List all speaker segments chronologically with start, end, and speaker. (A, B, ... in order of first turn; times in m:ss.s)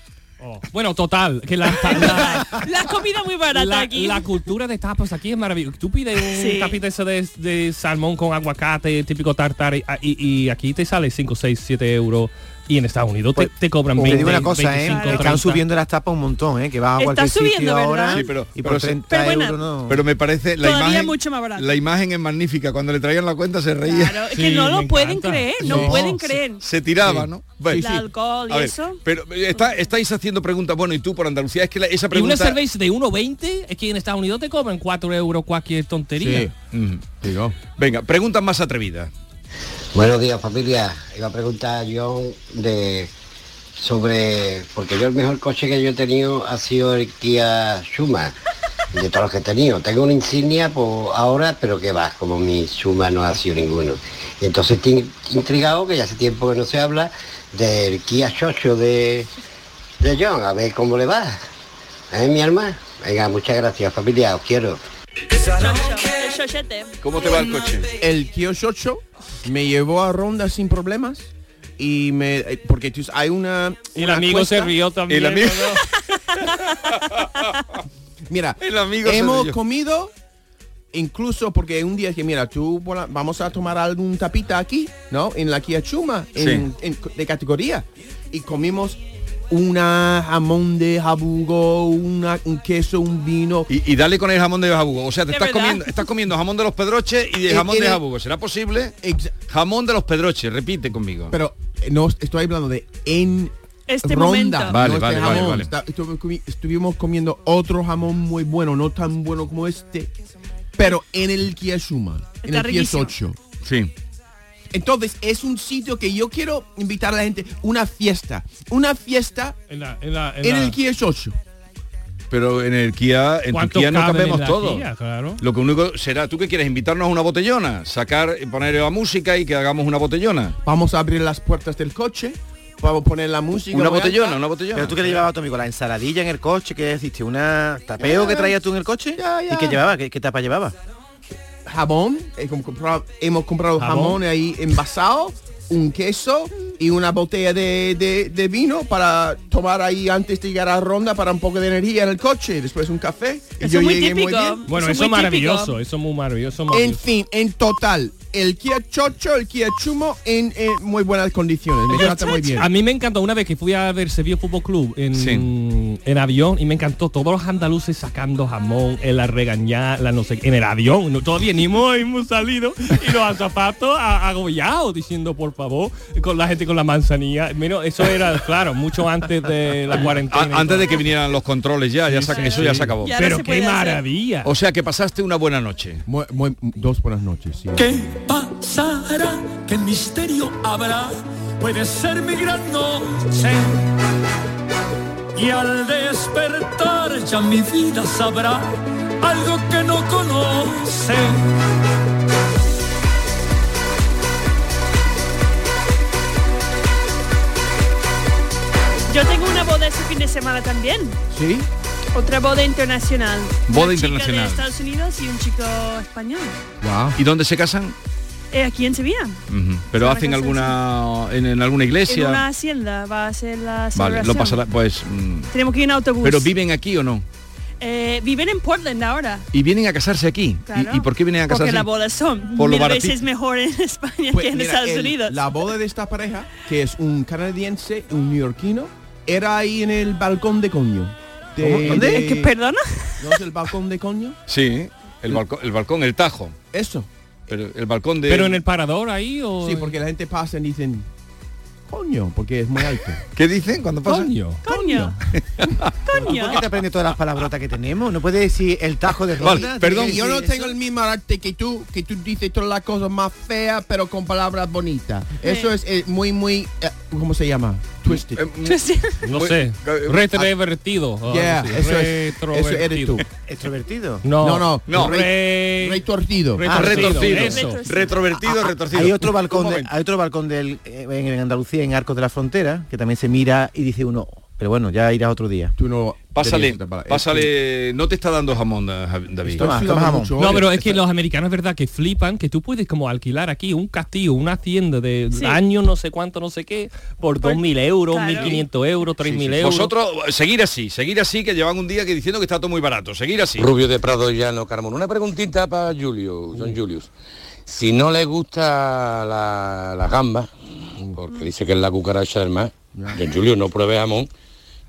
0:00.4-0:02.6 A
0:01.8-0:04.2 B
0:03.5-0:15.6 A
0:06.3-0:06.8 B
0:13.3-0:20.0 C
0:14.8-0:15.4 B
0:17.0-0:18.3 B
0:18.1-0:19.0 D
0:19.0-0:19.6 B
0:19.9-0:24.2 D
0:20.6-0:21.7 B
0:23.8-0:26.6 B
0:24.3-0:26.4 A
0:25.6-0:26.0 E
0:26.6-0:27.8 D
0:27.1-0:28.0 E
0:27.7-0:29.0 B
0:28.5-0:32.6 D
0:32.1-0:36.5 A
0:36.2-0:36.5 E
0:36.7-0:37.1 D
0:37.2-0:37.5 E
0:37.8-0:39.1 D
0:39.9-0:43.1 F
0:43.8-0:48.3 F
0:48.9-0:59.3 F
1:00.0-1:01.4 F
1:02.1-1:04.8 F
1:05.4-1:07.0 B
1:07.0-1:07.9 D
1:08.0-1:14.7 E
1:13.9-1:15.8 A
1:15.1-1:15.7 D
1:18.3-1:20.1 E
1:18.6-1:19.6 D
1:20.9-1:33.7 E
1:26.4-1:26.6 D
1:33.7-1:39.0 D
1:35.3-1:36.0 B
1:37.5-1:38.0 E
1:39.0-1:39.3 E
1:39.5-1:41.3 D
1:41.3-1:50.1 E
1:43.9-1:44.8 B
1:44.7-1:45.7 D
1:50.8-1:53.4 E
1:52.4-1:53.1 B
1:53.6-1:53.9 D
1:54.7-1:59.6 E
1:59.7-2:00.8 A
2:00.4-2:01.4 E
2:02.3-2:04.8 D
2:03.5-2:05.4 A
2:05.4-2:10.6 D
2:10.6-2:14.4 E
2:13.7-2:15.2 D
2:14.7-2:20.7 C
2:18.0-2:18.6 E
2:19.2-2:19.8 E
2:21.6-2:34.6 E
2:23.8-2:24.2 A
2:33.6-2:35.7 B
2:34.7-2:37.0 A
2:36.7-2:42.7 E
2:41.9-3:01.0 A
2:45.1-2:45.5 D
3:00.3-3:03.1 D
3:02.1-3:04.5 A
3:02.3-3:04.0 B
3:04.4-3:06.0 D
3:06.1-3:07.8 E
3:07.8-3:13.8 G
3:15.3-3:21.5 G
3:29.1-3:31.2 B
3:31.3-3:31.7 E
3:32.1-3:36.6 B
3:33.7-3:34.6 D
3:36.8-3:37.2 E
3:37.2-3:37.9 D
3:38.5-3:39.4 B
3:39.5-3:42.4 D
3:39.9-3:40.8 B
3:42.1-3:44.6 B
3:43.9-3:45.5 D
3:45.5-3:46.5 B
3:46.2-3:47.2 D
3:47.8-3:49.4 B
3:49.5-3:51.9 D
3:50.7-3:55.4 B
3:52.5-3:53.2 D
3:54.3-4:02.5 E
4:01.6-4:02.3 C
4:01.8-4:03.2 B
4:03.2-4:04.4 E
4:04.5-4:06.6 D
4:06.7-4:07.1 E
4:07.5-4:08.6 D
4:08.3-4:10.0 A
4:09.6-4:11.1 E
4:11.9-4:13.2 E
4:13.3-4:14.3 D
4:14.0-4:14.6 A
4:14.6-4:15.1 B
4:14.6-4:15.2 E
4:15.6-4:15.9 D
4:16.0-4:16.7 B
4:16.1-4:20.7 C
4:19.4-4:20.2 D
4:19.4-4:28.4 E
4:25.4-4:25.7 B
4:28.1-4:30.5 D
4:28.6-4:29.1 B
4:29.2-4:33.2 A
4:31.3-4:33.2 E
4:33.4-4:34.2 C
4:34.2-4:36.0 A
4:34.4-4:36.7 E
4:34.9-4:35.2 D
4:36.6-4:37.8 A
4:36.7-4:37.0 C
4:36.7-4:39.9 D
4:37.3-4:38.4 B
4:38.5-4:45.7 C
4:45.8-4:47.5 E
4:46.3-4:49.7 D
4:49.4-4:51.0 E
4:49.6-4:50.3 C
4:50.4-4:59.9 A
4:57.4-4:58.5 B
4:59.2-5:03.7 D
5:03.6-5:07.1 H
5:07.7-5:10.5 H
5:11.1-5:14.3 H
5:12.9-5:13.2 E